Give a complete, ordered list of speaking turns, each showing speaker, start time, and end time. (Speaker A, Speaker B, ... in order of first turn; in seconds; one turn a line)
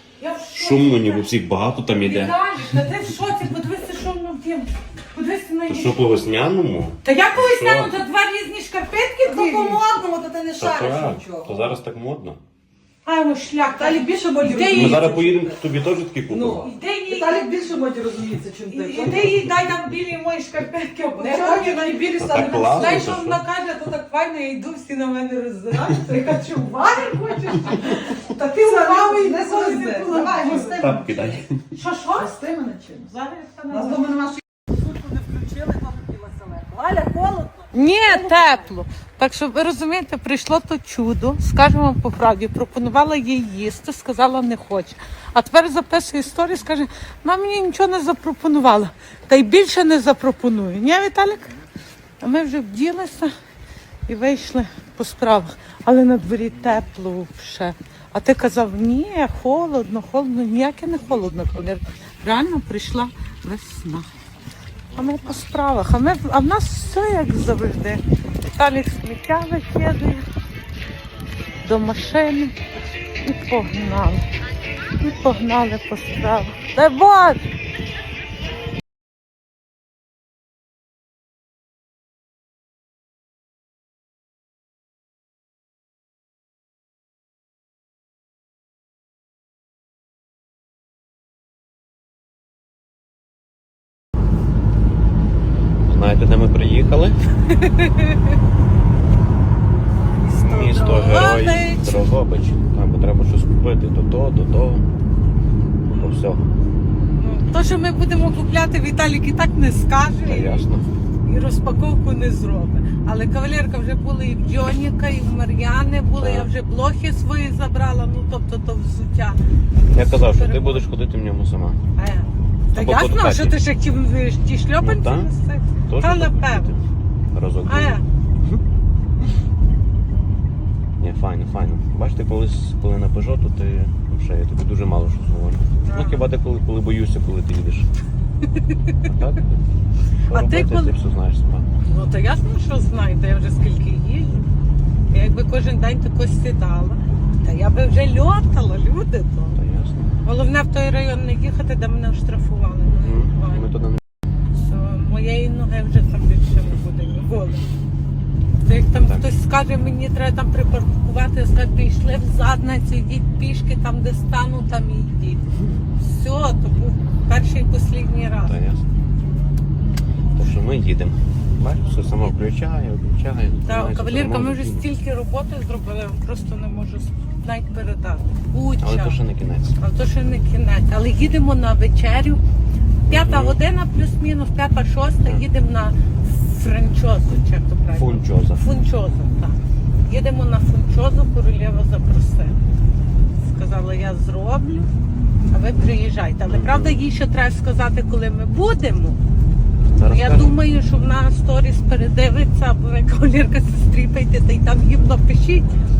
Speaker A: 0.2-1.3
Speaker B: 0.5-2.4
Speaker A: 1.9-6.1
Speaker B: 5.7-8.0
Speaker A: 7.0-9.8
Speaker C: 9.2-11.7
Speaker B: 10.5-12.4
Speaker A: 13.0-15.1
Speaker C: 13.7-15.6
Speaker B: 14.6-16.6
Speaker C: 16.2-19.5
Speaker A: 16.6-17.4
Speaker A: 18.7-30.8
Speaker C: 21.2-23.2
Speaker B: 22.2-23.4
Speaker C: 28.4-31.4
Speaker B: 30.6-31.6
Speaker A: 31.7-32.3
Speaker C: 32.1-33.1
Speaker A: 33.0-34.2
Speaker C: 33.7-38.6
Speaker A: 37.7-51.5
Speaker A: 52.2-53.3
Speaker A: 54.1-64.1
Speaker A: 64.9-68.0
Speaker A: 68.5-70.3
Speaker A: 71.6-72.6
Speaker A: 73.2-74.2
Speaker A: 75.0-77.4
Speaker B: 95.8-97.2
Speaker A: 97.5-98.1
Speaker C: 100.2-101.2
Speaker B: 100.2-104.8
Speaker A: 100.9-102.0
Speaker B: 105.9-106.5
Speaker A: 107.2-110.7
Speaker B: 110.2-110.8
Speaker A: 111.2-119.4
Speaker B: 116.2-116.5
Speaker B: 119.9-121.8
Speaker A: 120.0-120.8
Speaker A: 122.0-126.7
Speaker B: 122.7-123.6
Speaker B: 124.8-125.3
Speaker B: 125.9-128.6
Speaker A: 127.7-128.0
Speaker B: 131.0-137.9
Speaker A: 135.8-136.2
Speaker B: 139.0-139.6
Speaker A: 140.2-140.9
Speaker B: 140.3-141.7
Speaker A: 141.8-144.5
Speaker A: 145.1-149.6
Speaker B: 149.6-150.1
Speaker A: 150.2-153.7
Speaker B: 153.0-154.0
Speaker A: 154.6-157.7
Speaker A: 158.6-168.5
Speaker B: 158.9-159.2
Speaker B: 168.4-168.8
Speaker B: 170.3-174.9
Speaker A: 173.6-179.2
Speaker B: 178.8-179.8
Speaker A: 179.8-182.4
Speaker A: 183.1-192.6
Speaker B: 183.1-183.6
Speaker B: 187.9-188.6
Speaker A: 193.4-194.9
Speaker A: 195.5-199.2
Speaker B: 196.5-197.0
Speaker B: 200.0-200.6
Speaker A: 200.0-205.7